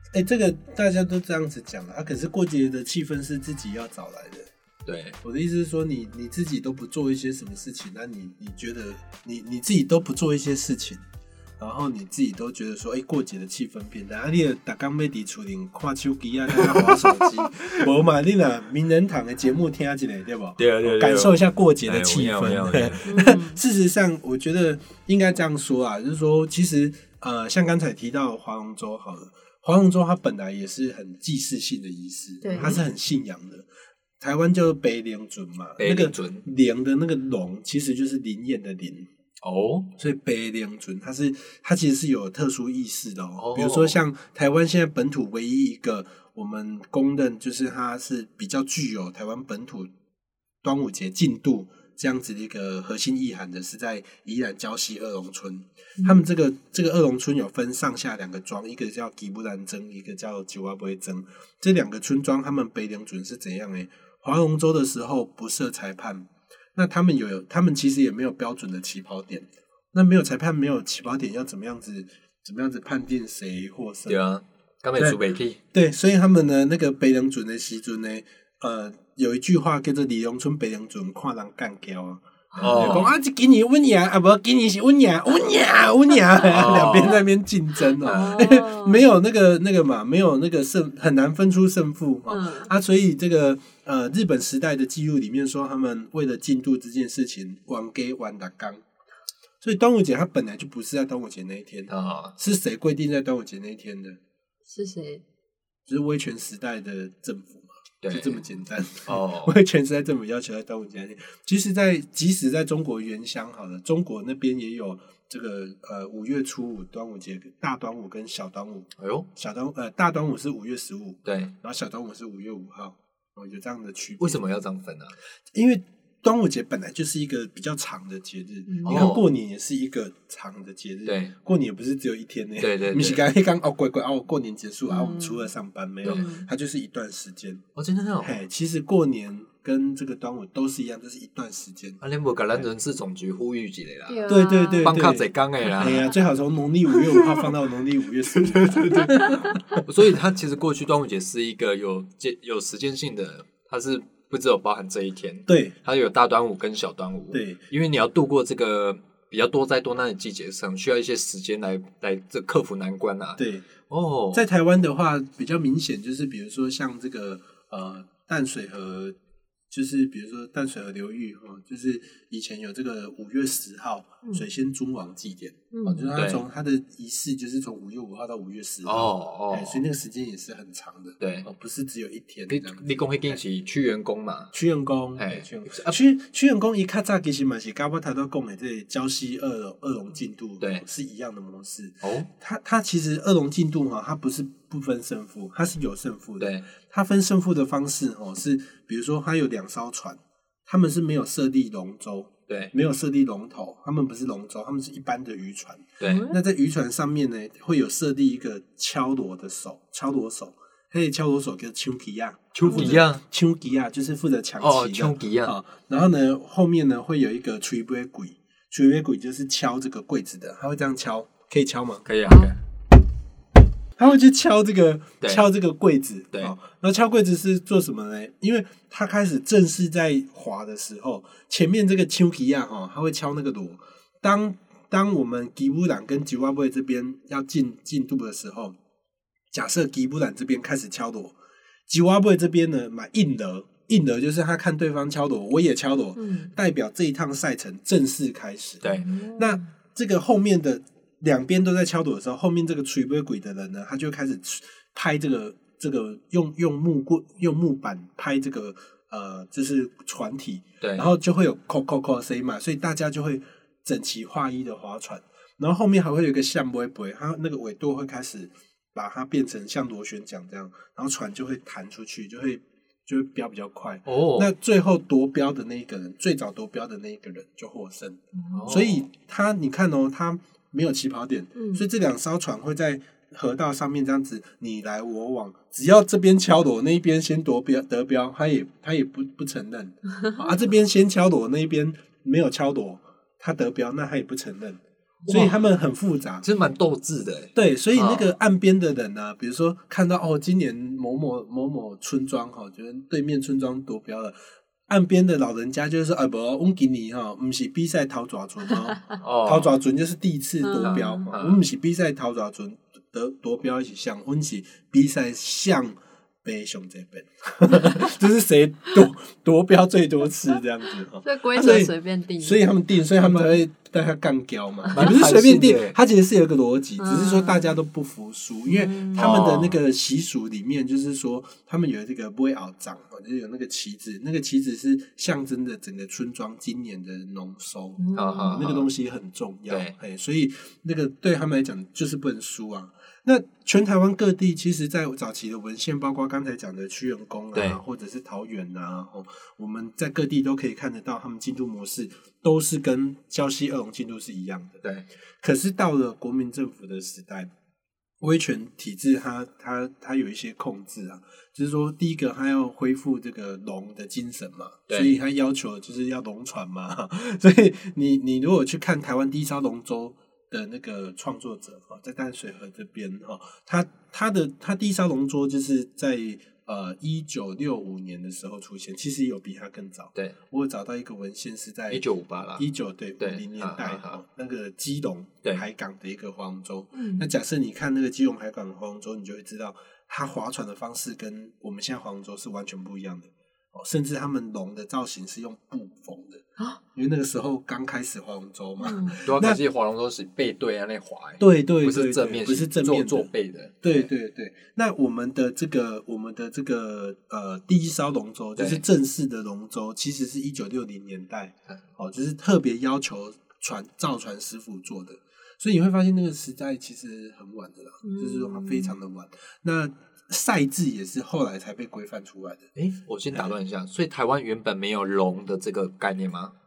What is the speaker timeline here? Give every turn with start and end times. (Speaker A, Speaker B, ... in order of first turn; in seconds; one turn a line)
Speaker A: 0.1-4.5
Speaker B: 4.9-5.2
Speaker A: 5.2-11.0
Speaker A: 11.6-33.7
Speaker B: 16.5-17.7
Speaker B: 20.6-23.2
Speaker C: 23.1-23.6
Speaker C: 32.4-32.8
Speaker A: 34.2-39.1
Speaker B: 35.8-36.5
Speaker B: 39.4-39.9
Speaker A: 40.0-49.9
Speaker B: 43.4-44.0
Speaker A: 50.6-74.2
Speaker B: 74.1-75.6
Speaker A: 75.0-75.2
Speaker A: 75.7-98.8
Speaker C: 82.5-83.1
Speaker B: 82.6-83.1
Speaker B: 86.5-87.2
Speaker C: 88.0-89.0
Speaker B: 88.0-88.4
Speaker C: 92.3-92.7
Speaker A: 99.6-104.2
Speaker B: 101.9-102.3
Speaker C: 104.7-105.2
Speaker A: 105.9-124.4
Speaker B: 108.0-108.4
Speaker B: 109.0-109.6
Speaker B: 119.0-119.3
Speaker B: 121.2-121.5
Speaker B: 124.2-125.1
Speaker A: 125.5-137.6
Speaker C: 128.7-129.2
Speaker B: 128.8-129.2
Speaker B: 131.1-131.3
Speaker B: 132.6-133.2
Speaker C: 134.9-135.5
Speaker C: 136.0-136.5
Speaker B: 137.8-138.4
Speaker A: 138.2-142.0
Speaker B: 142.0-144.3
Speaker C: 144.1-144.9
Speaker A: 144.3-149.9
Speaker B: 144.8-146.1
Speaker B: 146.9-147.5
Speaker B: 148.3-164.4
Speaker A: 155.5-155.8
Speaker A: 157.3-157.6
Speaker A: 163.4-163.7
Speaker A: 164.3-169.2
Speaker A: 169.7-183.4
Speaker C: 175.7-176.1
Speaker B: 176.2-176.4
Speaker B: 178.8-179.8
Speaker B: 181.2-181.5
Speaker B: 182.5-184.5
Speaker A: 184.5-222.1
Speaker B: 185.2-186.0
Speaker B: 192.0-192.3
Speaker B: 196.4-196.6
Speaker B: 206.0-206.3
Speaker C: 206.0-206.4
Speaker B: 212.6-213.2
Speaker C: 212.7-213.0
Speaker B: 214.6-215.5
Speaker B: 222.1-222.6
Speaker A: 224.0-238.8
Speaker A: 239.5-241.3
Speaker A: 241.9-296.5
Speaker C: 246.2-246.5
Speaker B: 248.8-249.1
Speaker C: 249.0-249.6
Speaker B: 260.8-261.1
Speaker B: 274.1-274.5
Speaker C: 278.4-278.7
Speaker B: 278.5-279.1
Speaker C: 281.6-281.8
Speaker C: 290.2-290.5
Speaker B: 295.2-295.6
Speaker B: 296.4-298.3
Speaker A: 297.6-304.4
Speaker A: 304.9-354.8
Speaker B: 309.2-309.8
Speaker C: 310.6-311.3
Speaker B: 310.8-311.6
Speaker C: 321.2-322.7
Speaker B: 324.9-326.0
Speaker C: 327.0-327.8
Speaker C: 328.7-329.4
Speaker B: 329.1-329.8
Speaker C: 338.0-338.6
Speaker B: 338.1-338.9
Speaker B: 339.7-339.9
Speaker B: 347.5-347.8
Speaker A: 355.4-357.5
Speaker A: 358.2-382.0
Speaker B: 364.9-365.1
Speaker B: 381.9-382.6
Speaker A: 382.6-396.4
Speaker B: 383.2-384.2
Speaker C: 386.9-387.3
Speaker A: 396.9-399.6
Speaker C: 398.8-399.2
Speaker B: 399.2-404.1
Speaker A: 401.4-403.3
Speaker A: 403.8-422.7
Speaker B: 408.6-408.8
Speaker C: 418.0-418.9
Speaker B: 422.8-426.5